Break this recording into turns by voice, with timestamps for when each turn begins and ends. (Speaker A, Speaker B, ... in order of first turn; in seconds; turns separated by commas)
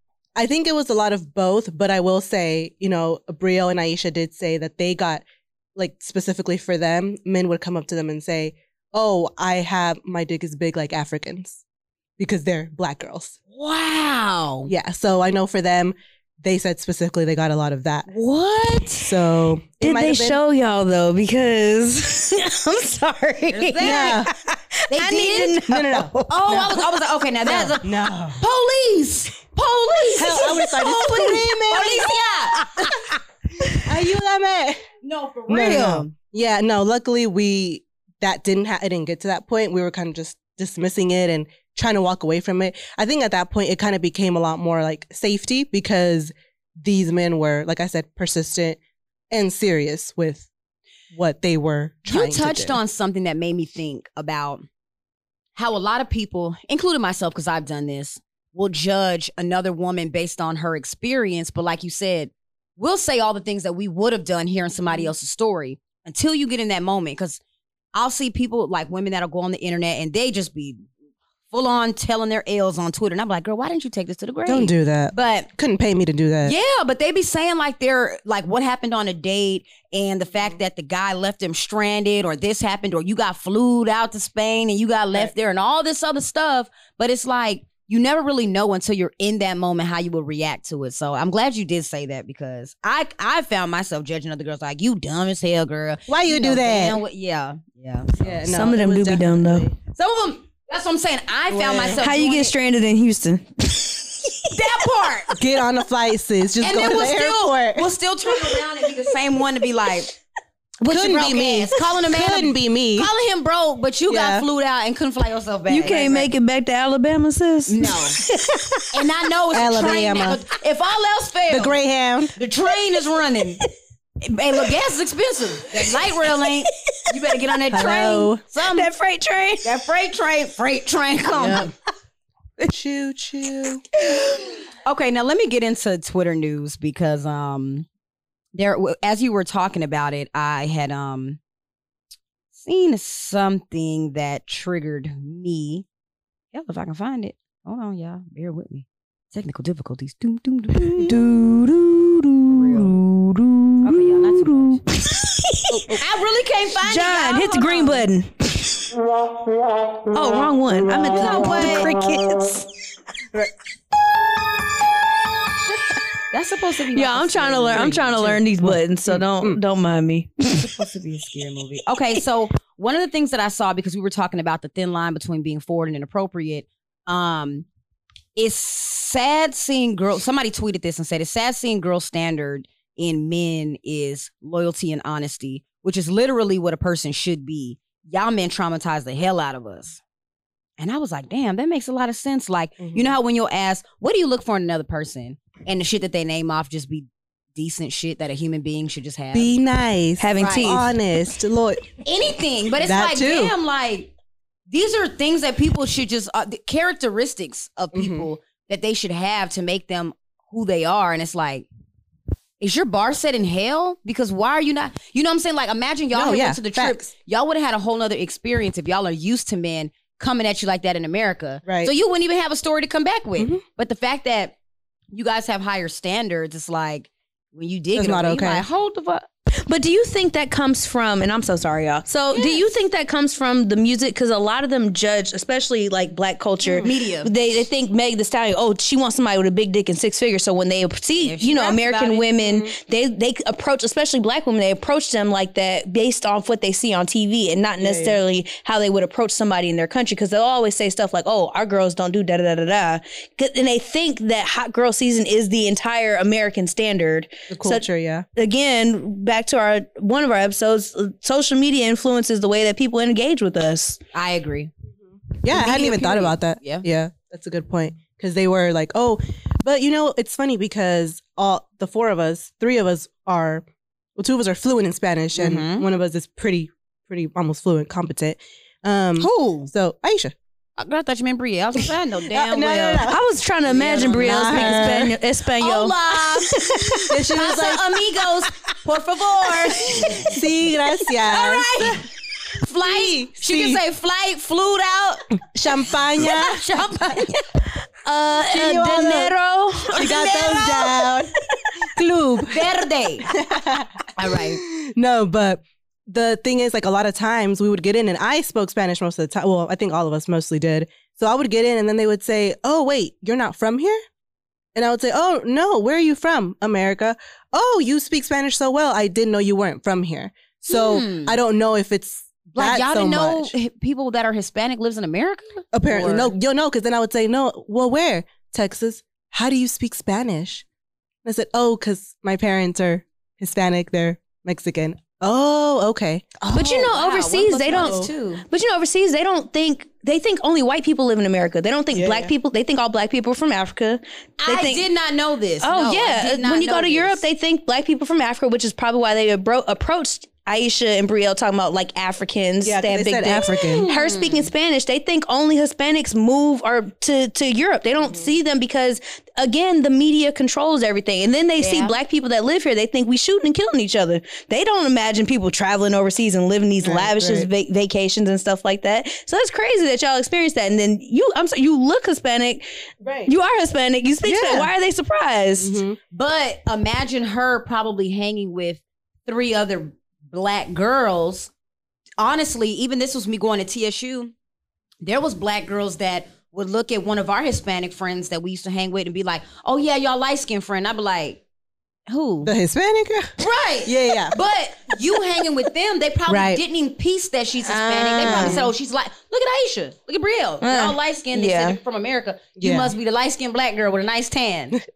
Speaker A: 0.4-5.2, Speaker A: 5.8-11.6, Speaker A: 12.2-13.3, Speaker B: 13.5-14.7, Speaker A: 14.7-18.1, Speaker B: 18.1-19.1, Speaker A: 18.9-20.4, Speaker C: 19.8-26.8, Speaker B: 23.5-24.2, Speaker A: 23.8-24.3, Speaker B: 24.9-25.6, Speaker A: 25.7-26.7, Speaker B: 26.3-33.1, Speaker A: 27.5-28.4, Speaker C: 30.2-31.3, Speaker A: 30.2-32.1, Speaker C: 32.0-33.8, Speaker A: 33.8-34.8, Speaker B: 35.0-36.1, Speaker A: 35.5-48.8, Speaker A: 49.3-50.5, Speaker A: 51.1-52.8, Speaker B: 52.1-54.6, Speaker B: 55.5-67.4, Speaker B: 67.9-70.8, Speaker B: 71.5-75.5, Speaker A: 74.4-76.5, Speaker B: 76.4-98.2, Speaker A: 96.1-97.0, Speaker A: 98.2-99.7, Speaker C: 98.4-99.6, Speaker B: 99.9-102.5, Speaker A: 101.5-102.0, Speaker C: 102.0-104.5, Speaker B: 104.5-105.3, Speaker A: 105.3-107.9, Speaker B: 106.6-110.1, Speaker B: 110.8-116.3, Speaker A: 110.8-113.1, Speaker A: 114.1-114.5, Speaker C: 115.7-119.0, Speaker B: 117.7-118.2, Speaker B: 118.9-121.8, Speaker A: 119.5-120.4, Speaker A: 121.5-122.3, Speaker B: 122.3-123.6, Speaker B: 124.2-128.9, Speaker C: 125.6-127.9, Speaker A: 127.7-128.4, Speaker C: 128.6-129.7, Speaker B: 129.6-131.7, Speaker A: 131.4-131.6, Speaker A: 132.7-133.8, Speaker C: 134.0-134.6, Speaker B: 134.8-137.8, Speaker B: 138.5-141.4, Speaker B: 142.6-145.8, Speaker B: 146.5-151.2, Speaker C: 151.0-155.8, Speaker B: 152.5-153.0, Speaker B: 153.8-154.8, Speaker B: 155.7-158.1, Speaker C: 156.8-158.9, Speaker C: 160.1-162.7, Speaker B: 160.9-161.9, Speaker B: 166.3-168.4, Speaker C: 166.9-170.6, Speaker A: 168.6-169.6, Speaker B: 170.6-177.7, Speaker B: 178.4-190.0, Speaker B: 190.8-199.5, Speaker A: 192.8-193.1, Speaker A: 199.3-201.8, Speaker C: 200.2-200.9, Speaker B: 200.4-200.8, Speaker B: 202.0-204.1, Speaker A: 202.8-203.5, Speaker B: 204.7-211.7, Speaker A: 207.9-208.3, Speaker B: 212.6-224.6, Speaker A: 216.1-217.1, Speaker A: 221.6-221.9, Speaker B: 225.1-229.3, Speaker A: 227.9-228.7, Speaker C: 229.7-257.8, Speaker A: 236.6-236.9, Speaker B: 236.8-237.3, Speaker B: 241.2-242.6, Speaker A: 247.8-248.2, Speaker A: 257.5-258.2, Speaker C: 258.4-264.0, Speaker B: 264.1-264.7, Speaker A: 265.4-273.6, Speaker B: 265.5-266.8, Speaker A: 274.1-280.3, Speaker B: 275.4-275.9, Speaker B: 279.2-279.7, Speaker B: 280.8-283.0, Speaker A: 282.3-283.2, Speaker C: 282.6-287.6, Speaker B: 283.7-285.1, Speaker A: 284.0-285.1, Speaker B: 285.6-290.3, Speaker A: 287.1-287.8, Speaker C: 289.6-290.4, Speaker A: 290.2-292.0, Speaker B: 291.2-292.0, Speaker B: 292.6-295.2, Speaker A: 292.8-293.8, Speaker A: 295.5-296.6, Speaker B: 296.2-297.4, Speaker C: 298.0-301.2, Speaker A: 298.5-299.4, Speaker A: 299.9-301.3, Speaker B: 299.9-300.8, Speaker A: 301.9-302.6, Speaker B: 302.5-303.3, Speaker A: 303.3-314.0, Speaker B: 304.2-304.6, Speaker A: 314.7-323.5, Speaker B: 320.6-321.4, Speaker B: 322.5-326.3, Speaker A: 325.7-330.6, Speaker A: 331.2-336.3, Speaker B: 336.4-338.4, Speaker C: 336.5-344.9, Speaker A: 337.6-338.1, Speaker A: 341.9-342.3, Speaker B: 344.4-347.2, Speaker C: 345.6-372.6, Speaker A: 352.6-353.8, Speaker B: 353.4-354.5, Speaker A: 358.0-358.3, Speaker B: 361.6-361.9, Speaker A: 366.8-367.5, Speaker A: 373.0-373.3, Speaker C: 373.2-375.8, Speaker A: 374.2-374.7, Speaker A: 375.6-376.0, Speaker B: 376.1-381.5, Speaker B: 382.2-384.3, Speaker B: 385.0-391.4, Speaker B: 392.1-392.5, Speaker A: 392.4-394.4, Speaker B: 393.4-404.8, Speaker A: 396.3-396.6, Speaker C: 397.6-398.6, Speaker A: 398.2-398.7, Speaker C: 400.6-401.8, Speaker A: 402.6-402.9